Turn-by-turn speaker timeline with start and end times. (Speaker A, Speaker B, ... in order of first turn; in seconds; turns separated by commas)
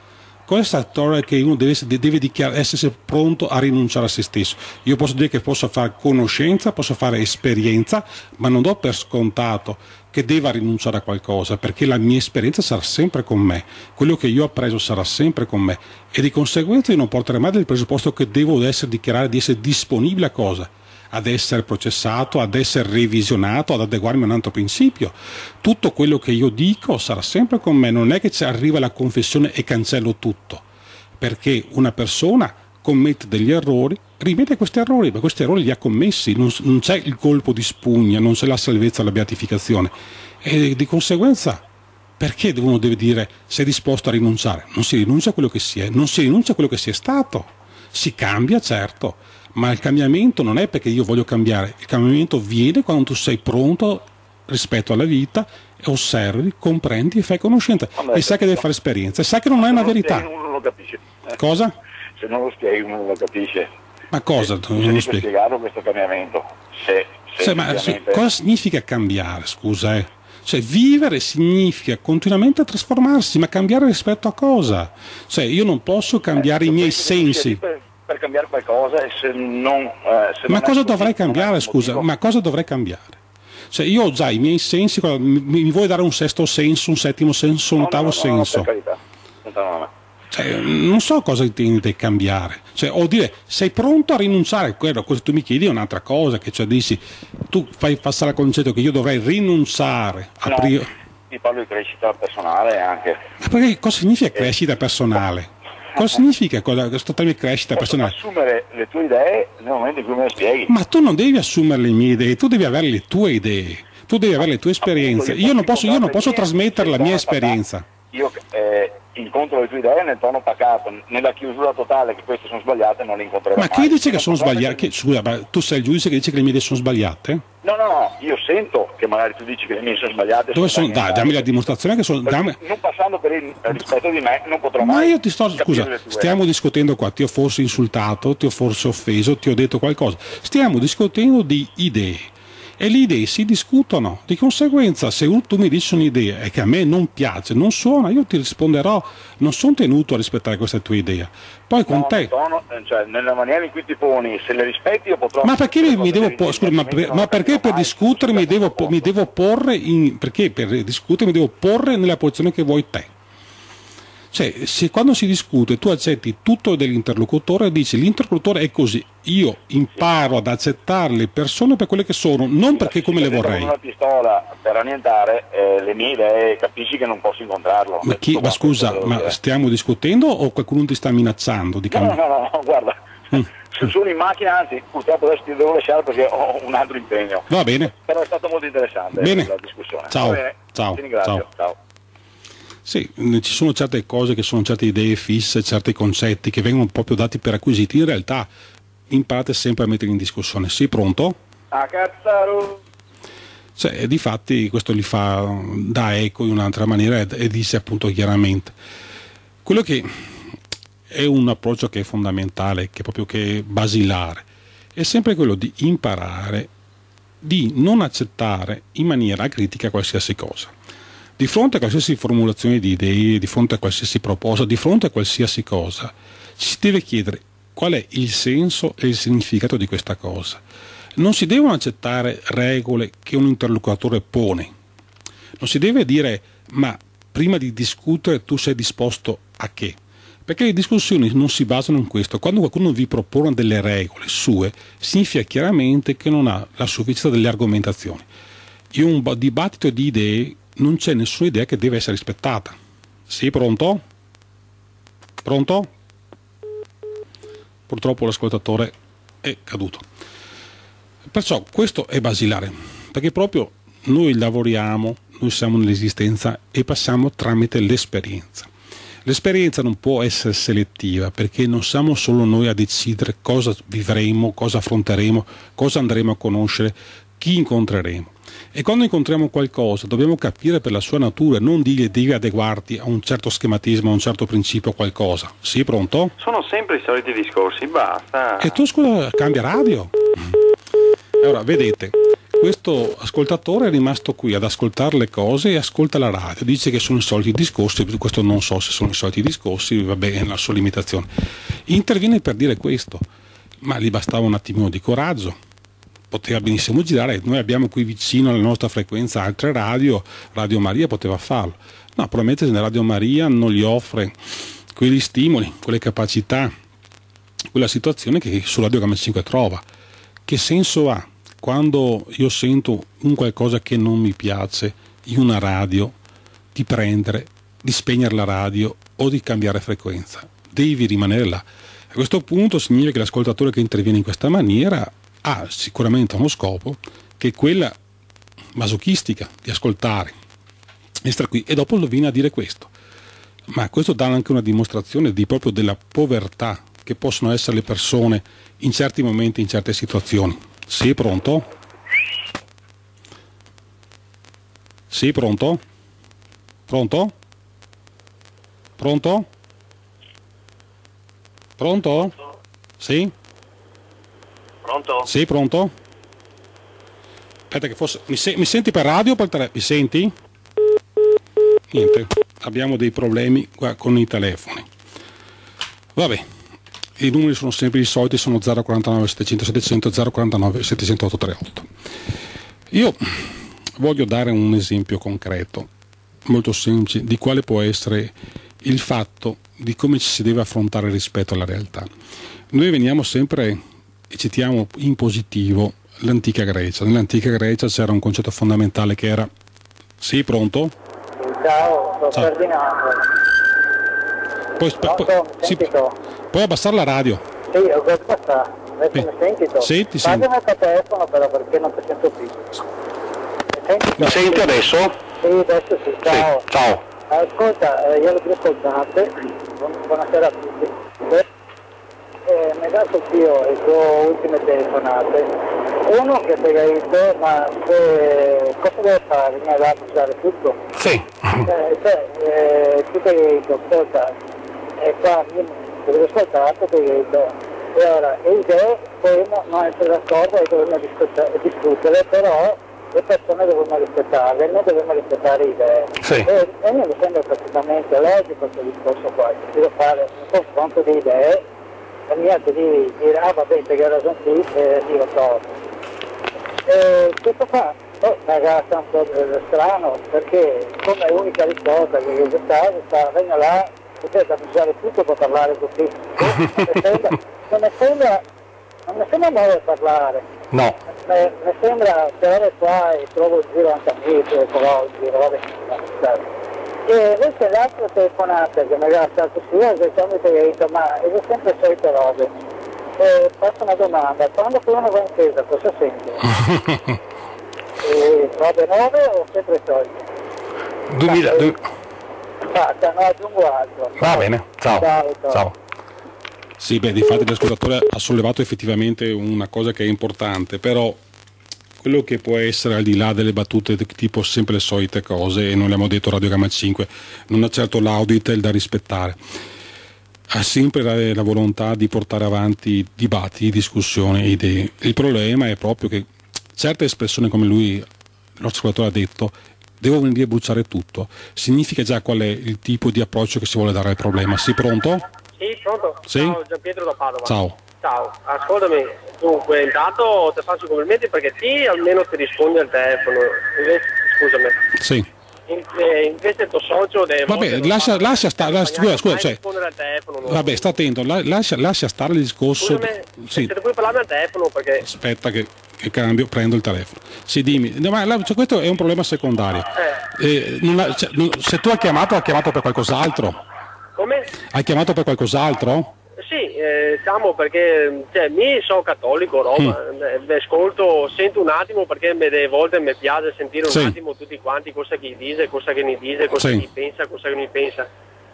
Speaker A: 0.5-30.6, Speaker A: 31.2-41.6, Speaker A: 42.2-60.3, Speaker B: 58.0-58.6, Speaker B: 59.6-61.4, Speaker A: 61.4-61.7, Speaker B: 62.2-63.7, Speaker A: 64.1-65.2, Speaker B: 64.4-68.2, Speaker A: 67.4-77.6, Speaker B: 76.3-82.0, Speaker A: 80.5-83.2, Speaker A: 83.7-88.7, Speaker B: 87.8-89.9, Speaker A: 90.3-100.9, Speaker B: 100.5-100.7, Speaker B: 101.3-103.2, Speaker A: 103.4-108.1, Speaker B: 107.8-110.7, Speaker A: 110.7-117.8, Speaker B: 114.8-117.6, Speaker B: 118.1-124.9, Speaker A: 123.5-127.4, Speaker B: 127.6-131.4, Speaker A: 130.5-132.6, Speaker B: 132.2-136.4, Speaker A: 134.8-152.3, Speaker B: 151.9-159.1, Speaker A: 155.4-163.1, Speaker A: 164.3-173.7, Speaker B: 172.7-179.3, Speaker A: 178.0-182.2, Speaker B: 181.9-191.8, Speaker A: 187.5-187.9, Speaker A: 189.1-189.5, Speaker A: 190.1-191.4, Speaker A: 192.8-198.5, Speaker A: 199.1-201.4, Speaker B: 201.7-202.7, Speaker A: 203.8-208.7, Speaker A: 209.6-210.1, Speaker A: 211.1-216.7, Speaker A: 217.4-220.7, Speaker A: 221.4-230.6, Speaker A: 231.2-234.7, Speaker A: 235.6-248.2, Speaker A: 248.9-252.8, Speaker A: 253.3-254.0, Speaker A: 255.4-255.9, Speaker A: 257.9-260.0, Speaker A: 261.3-268.7, Speaker A: 269.2-286.3, Speaker C: 286.4-288.8, Speaker A: 288.6-290.1, Speaker A: 291.4-301.3, Speaker A: 301.9-303.2, Speaker A: 303.8-305.6, Speaker A: 306.3-314.3, Speaker A: 314.9-316.7, Speaker A: 317.7-319.8, Speaker A: 320.4-326.1, Speaker A: 326.7-337.9, Speaker A: 338.7-340.3, Speaker A: 341.2-342.9, Speaker A: 343.7-351.7, Speaker A: 355.1-355.8, Speaker A: 356.9-357.3, Speaker A: 359.0-359.5, Speaker A: 361.8-362.3, Speaker A: 363.0-363.3, Speaker D: 364.8-365.2, Speaker A: 365.2-365.9, Speaker A: 367.7-370.3, Speaker A: 371.9-374.9, Speaker A: 376.1-376.4, Speaker A: 377.2-381.9, Speaker A: 382.9-385.9, Speaker A: 386.4-392.1, Speaker A: 392.7-399.5, Speaker A: 400.2-400.9, Speaker E: 401.4-403.3, Speaker A: 404.8-405.9, Speaker E: 405.0-406.1, Speaker A: 406.5-407.4, Speaker E: 407.7-412.8, Speaker A: 409.8-410.5, Speaker E: 413.8-414.8, Speaker A: 414.2-415.1, Speaker E: 415.4-416.6, Speaker A: 416.3-417.0, Speaker E: 417.3-421.4, Speaker E: 422.5-425.5, Speaker E: 426.0-430.8, Speaker A: 430.9-431.7, Speaker E: 431.6-434.3, Speaker E: 435.0-451.6, Speaker A: 446.2-446.5, Speaker E: 452.3-455.7, Speaker E: 456.9-468.4, Speaker A: 466.6-466.9, Speaker E: 469.1-470.5, Speaker A: 470.7-471.0, Speaker E: 471.2-476.4, Speaker E: 477.1-482.6, Speaker E: 483.2-486.6, Speaker A: 486.6-487.0, Speaker E: 488.0-490.2, Speaker A: 491.1-491.8, Speaker E: 491.2-491.8, Speaker E: 492.7-495.6, Speaker A: 494.2-495.7, Speaker A: 496.8-501.2, Speaker A: 502.0-509.4, Speaker A: 510.5-518.0, Speaker A: 518.6-525.2, Speaker D: 525.6-534.8, Speaker A: 526.3-526.6, Speaker A: 527.4-527.8, Speaker A: 535.0-535.3, Speaker D: 535.7-540.9, Speaker A: 537.5-539.6, Speaker A: 540.4-543.7, Speaker D: 542.8-545.0, Speaker A: 545.0-553.6, Speaker D: 550.0-550.2, Speaker D: 554.1-554.5, Speaker A: 554.7-556.1, Speaker D: 556.4-568.1, Speaker A: 563.9-564.2, Speaker A: 566.6-566.9